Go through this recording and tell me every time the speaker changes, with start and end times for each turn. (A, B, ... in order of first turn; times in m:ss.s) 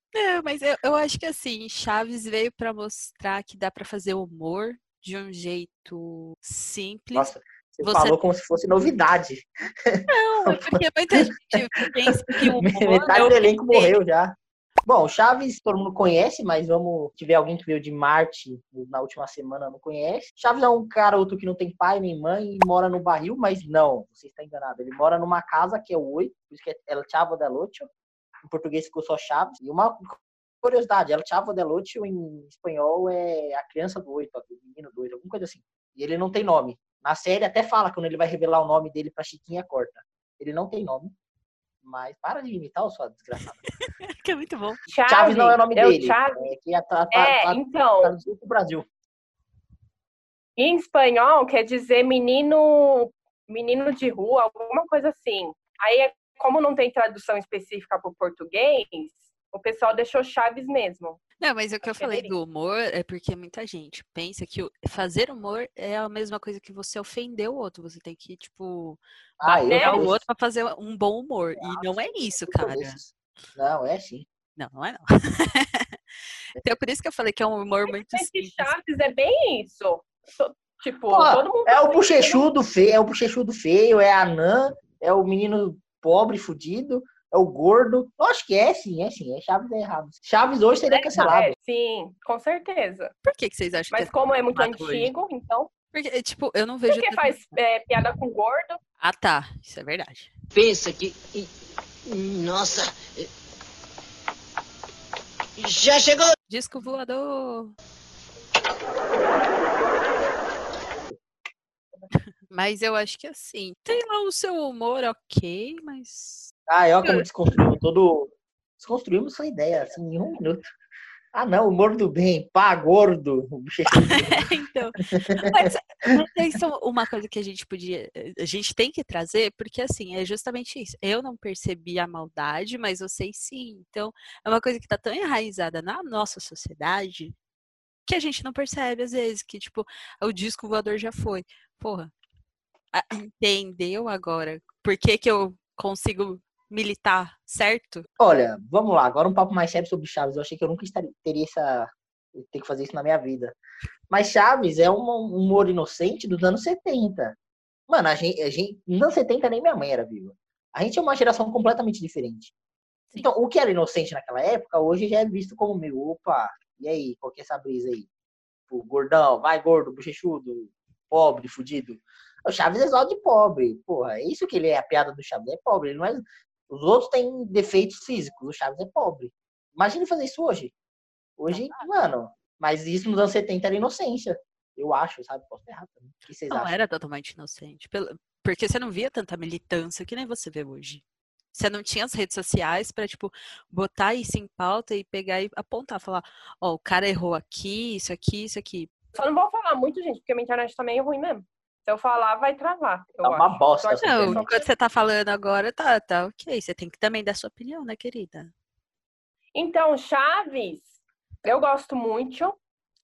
0:00.1-0:08.2 A
0:07.1-0:11.5 B
0:10.1-0:14.0 A
0:12.4-0:27.9 B
0:28.4-0:41.1 B
0:41.8-0:43.7 B
0:44.0-0:44.8 A
0:44.9-0:46.4 C
0:45.1-0:48.8 B
0:47.1-0:48.1 C
0:50.6-1:01.2 C
1:01.4-1:13.0 A
1:01.8-1:02.3 C
1:09.4-1:10.2 B
1:09.7-1:10.0 C
1:11.6-1:14.2 B
1:14.6-1:15.9 A
1:16.6-1:18.7 A
1:17.9-1:22.5 C
1:21.1-1:31.6 B
1:30.9-1:33.1 C
1:33.2-1:35.1 A
1:33.9-1:35.7 C
1:35.9-1:37.3 A
1:36.9-1:38.8 C
1:39.0-1:40.3 A
1:40.5-1:41.5 D
1:42.1-1:43.3 D
1:45.6-1:46.3 D
1:46.5-1:47.7 A
1:52.4-1:56.5 A
1:56.7-2:00.6 B
2:01.3-2:04.5 B
2:03.9-2:17.4 A
2:05.1-2:06.2 B
2:18.0-2:22.1 A
2:22.9-2:28.1 A
2:28.2-2:33.6 B
2:34.1-2:37.3 B
2:37.9-2:42.5 B
2:43.1-2:48.1 B
2:48.7-3:00.7 B
3:01.4-3:06.7 B
3:01.5-3:01.9 A
3:06.5-3:18.9 A
3:19.1-3:24.5 C
3:23.2-3:24.6 B
3:24.0-3:28.5 A
3:29.5-3:32.5 C